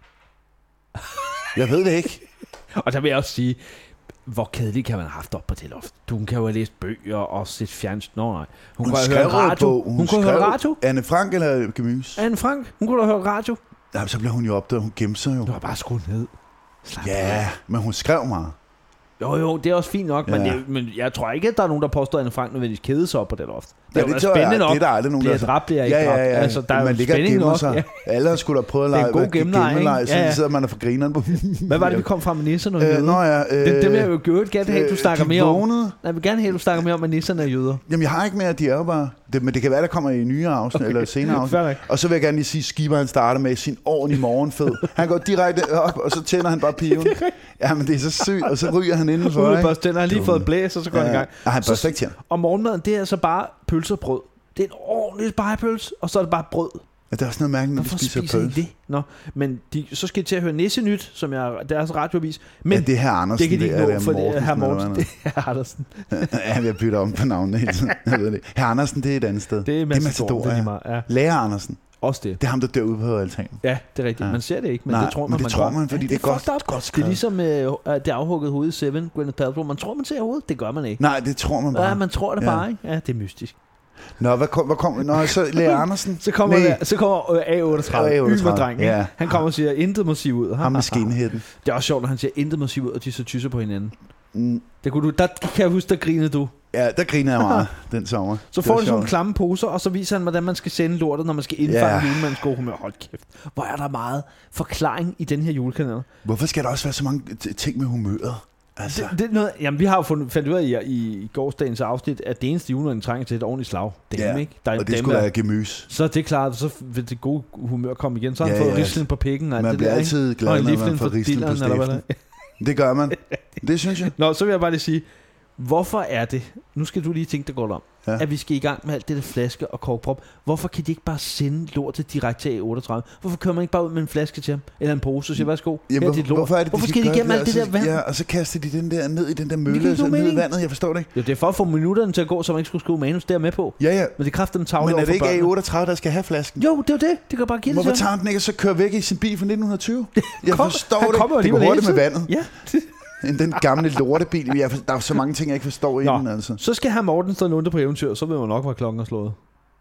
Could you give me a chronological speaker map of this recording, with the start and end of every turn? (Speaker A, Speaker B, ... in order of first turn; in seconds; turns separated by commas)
Speaker A: 1.6-2.2, Speaker B: 2.8-3.6, Speaker B: 4.3-10.8, Speaker A: 8.8-12.2, Speaker B: 12.2-13.6, Speaker A: 13.9-15.5, Speaker B: 15.4-16.3, Speaker B: 16.8-17.4, Speaker A: 17.0-18.6, Speaker B: 19.2-27.9, Speaker A: 20.3-20.6, Speaker A: 23.9-32.1, Speaker B: 28.9-30.4, Speaker B: 31.7-37.8, Speaker A: 32.8-36.0, Speaker A: 37.9-52.2, Speaker B: 40.8-41.9, Speaker B: 46.7-47.4, Speaker B: 48.2-56.8, Speaker A: 57.1-58.6, Speaker B: 57.8-66.3, Speaker A: 62.7-65.1, Speaker A: 66.1-71.8, Speaker B: 69.7-71.1, Speaker B: 72.0-72.4, Speaker A: 72.4-73.6, Speaker B: 73.6-81.0, Speaker A: 74.2-77.2, Speaker A: 81.0-82.7, Speaker B: 81.7-83.5, Speaker A: 84.2-86.8, Speaker B: 85.1-93.9, Speaker A: 87.7-89.5, Speaker A: 90.6-91.5, Speaker A: 94.3-94.7, Speaker B: 94.8-96.5, Speaker A: 96.7-99.1, Speaker B: 97.4-97.7, Speaker B: 98.5-106.1, Speaker A: 101.6-102.4, Speaker A: 106.2-109.2, Speaker B: 108.9-115.3, Speaker A: 114.1-115.9, Speaker B: 115.9-122.2, Speaker A: 118.4-119.0, Speaker A: 119.6-122.0, Speaker A: 122.6-124.1, Speaker B: 123.9-125.0, Speaker B: 125.6-138.0, Speaker A: 135.4-141.1, Speaker B: 139.7-140.5, Speaker B: 141.1-145.5, Speaker A: 143.8-144.2, Speaker A: 144.8-146.7, Speaker B: 146.6-148.1, Speaker A: 147.7-152.4, Speaker B: 150.2-152.9, Speaker A: 153.2-156.6, Speaker B: 156.0-159.4